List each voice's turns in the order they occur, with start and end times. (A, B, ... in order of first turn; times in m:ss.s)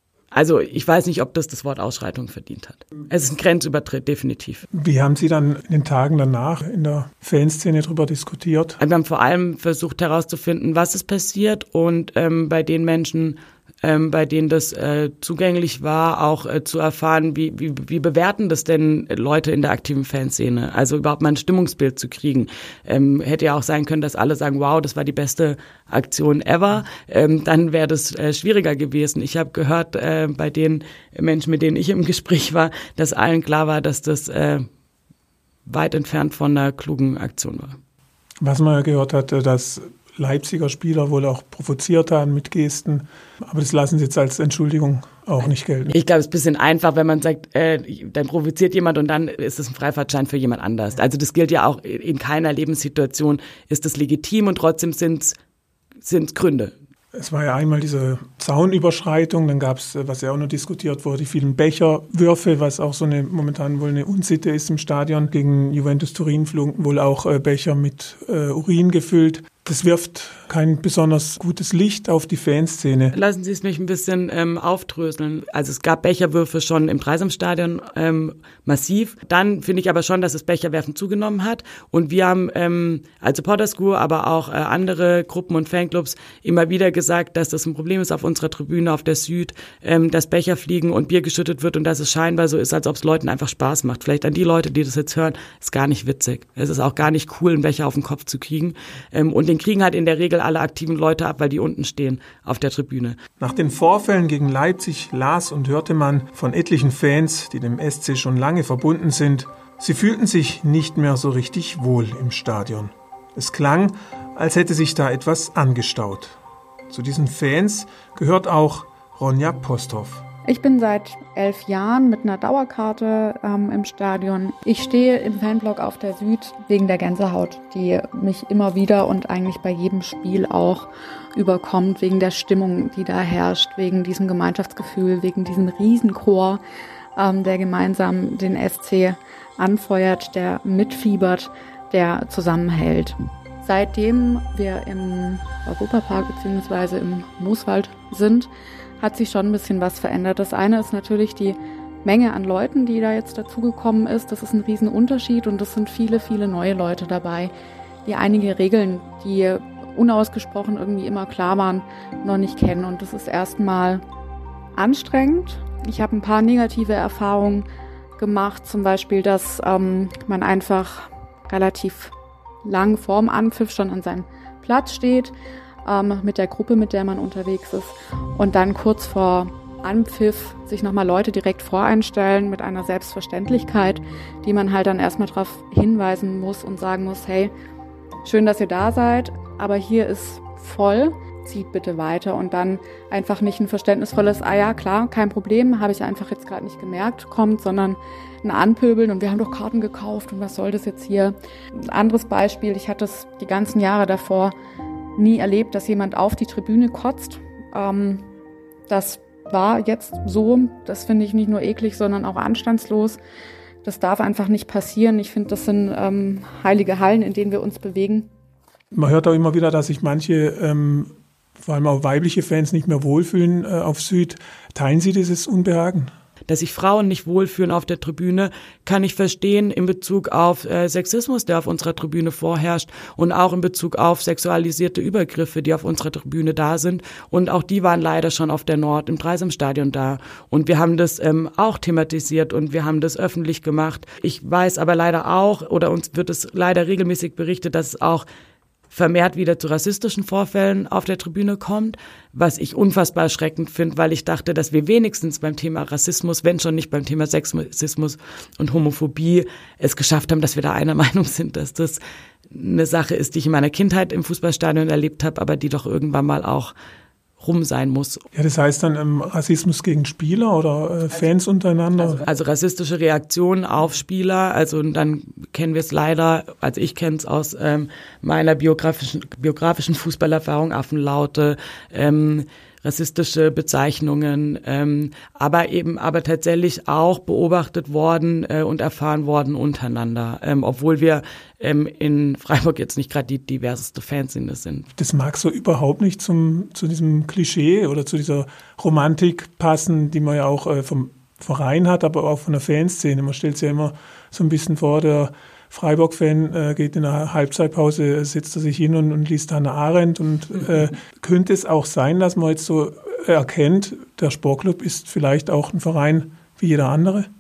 0:00.3-0:04.7 A
0:04.7-0:08.8 B
0:08.8-0:34.7 A
0:35.7-0:37.8 A
0:38.4-0:46.0 B
0:45.9-0:55.4 A
0:56.0-0:56.7 A
0:57.1-1:13.2 B
1:13.1-1:43.2 A
1:43.4-1:56.4 B
1:56.9-2:00.2 B
2:00.5-2:16.6 C
2:17.2-2:37.5 C
2:38.0-2:44.0 C
2:44.8-2:47.7 C
2:48.2-2:52.1 C
2:52.6-2:55.3 C
2:55.8-3:07.5 C
3:08.2-3:24.6 C
3:25.2-3:28.3 C
3:28.9-3:33.2 C
3:33.8-3:38.3 C
3:38.9-3:46.1 B
3:46.5-4:08.2 A
4:08.9-4:26.7 A
4:27.4-4:28.2 A
4:28.3-4:32.2 B
4:32.2-4:54.9 A
4:55.0-5:17.3 B